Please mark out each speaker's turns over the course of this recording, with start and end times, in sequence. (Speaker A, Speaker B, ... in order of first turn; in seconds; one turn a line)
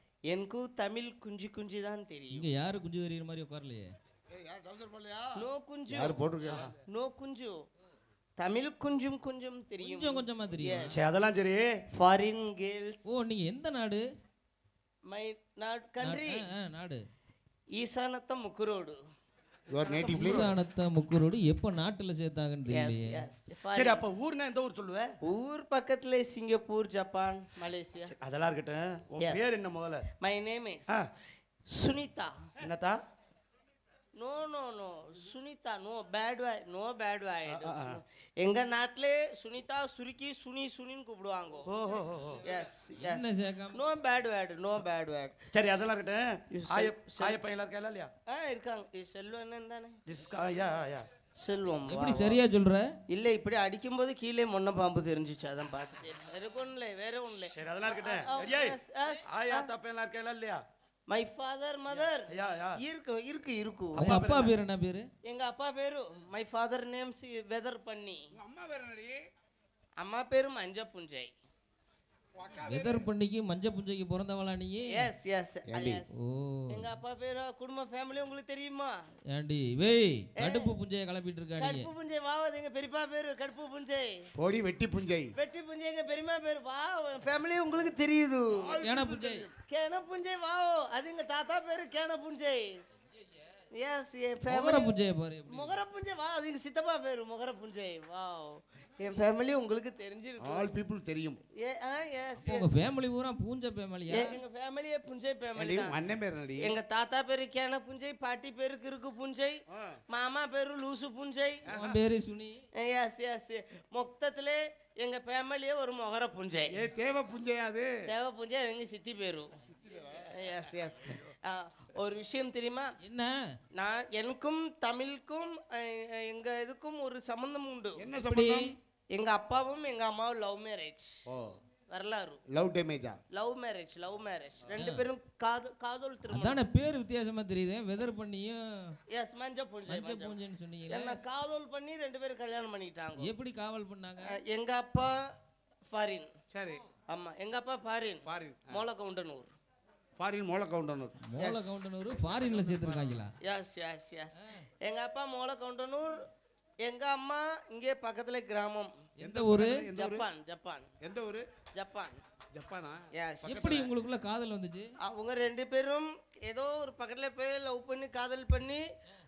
Speaker A: 0.3-2.5
Speaker B: 2.3-3.9
Speaker C: 4.3-6.8
Speaker A: 5.4-6.3
Speaker A: 6.9-7.6
Speaker A: 8.4-10.9
Speaker B: 9.8-10.9
Speaker D: 10.9-11.7
Speaker A: 11.9-13.1
Speaker B: 13.1-14.0
Speaker A: 15.1-16.4
Speaker B: 16.0-17.0
Speaker A: 17.8-19.0
Speaker C: 19.7-20.5
Speaker D: 19.8-20.5
Speaker B: 20.1-23.1
Speaker A: 22.7-24.0
Speaker D: 23.7-25.1
Speaker A: 25.2-28.1
Speaker D: 28.1-30.1
Speaker A: 29.2-29.6
Speaker A: 30.2-30.9
Speaker A: 31.7-32.3
Speaker D: 32.6-33.0
Speaker A: 34.2-41.7
Speaker D: 37.5-38.0
Speaker D: 41.7-42.4
Speaker A: 42.4-45.5
Speaker B: 43.0-43.8
Speaker D: 45.5-48.1
Speaker A: 46.5-47.4
Speaker A: 48.3-50.0
Speaker D: 50.1-51.1
Speaker A: 51.4-52.4
Speaker B: 51.9-52.9
Speaker A: 53.1-59.7
Speaker D: 57.5-60.6
Speaker A: 61.1-64.2
Speaker D: 62.3-62.8
Speaker D: 64.0-64.5
Speaker B: 64.0-65.0
Speaker A: 65.2-68.2
Speaker C: 68.3-69.2
Speaker A: 70.0-71.3
Speaker C: 72.3-73.1
Speaker B: 72.7-75.0
Speaker A: 74.9-76.1
Speaker C: 75.7-76.0
Speaker B: 76.2-76.9
Speaker A: 76.7-79.0
Speaker B: 79.3-81.9
Speaker A: 80.4-80.7
Speaker A: 81.6-84.3
Speaker C: 84.4-85.3
Speaker A: 85.4-88.8
Speaker C: 88.5-89.5
Speaker B: 88.8-89.5
Speaker A: 89.6-92.8
Speaker A: 93.8-94.9
Speaker B: 94.5-95.7
Speaker A: 95.5-100.7
Speaker C: 100.4-101.4
Speaker A: 101.6-102.7
Speaker B: 102.5-104.3
Speaker A: 104.1-106.0
Speaker C: 105.6-106.7
Speaker A: 106.6-109.6
Speaker A: 110.1-111.6
Speaker C: 111.7-112.0
Speaker B: 111.7-112.6
Speaker A: 112.8-116.7
Speaker C: 116.8-117.9
Speaker A: 118.1-119.5
Speaker C: 119.7-121.3
Speaker A: 120.3-122.9
Speaker B: 123.0-123.3
Speaker A: 123.8-128.0
Speaker C: 128.0-128.8
Speaker B: 128.2-128.7
Speaker A: 129.1-131.2
Speaker C: 131.3-131.6
Speaker A: 131.9-132.4
Speaker C: 132.5-133.2
Speaker A: 133.3-136.6
Speaker B: 134.8-135.1
Speaker B: 136.3-138.6
Speaker A: 139.1-140.4
Speaker B: 139.9-141.2
Speaker A: 140.9-143.3
Speaker B: 143.2-144.4
Speaker A: 144.3-145.1
Speaker A: 145.9-146.3
Speaker C: 146.5-146.8
Speaker A: 147.1-149.5
Speaker C: 148.2-148.8
Speaker C: 150.2-151.2
Speaker B: 151.3-153.3
Speaker A: 151.4-151.8
Speaker C: 152.2-153.3
Speaker A: 153.4-156.2
Speaker A: 156.8-158.9
Speaker B: 159.2-159.8
Speaker C: 159.2-160.3
Speaker A: 159.9-160.9
Speaker C: 161.0-161.5
Speaker A: 161.8-162.2
Speaker C: 162.5-163.9
Speaker A: 163.2-163.7
Speaker B: 163.4-164.9
Speaker A: 165.0-168.8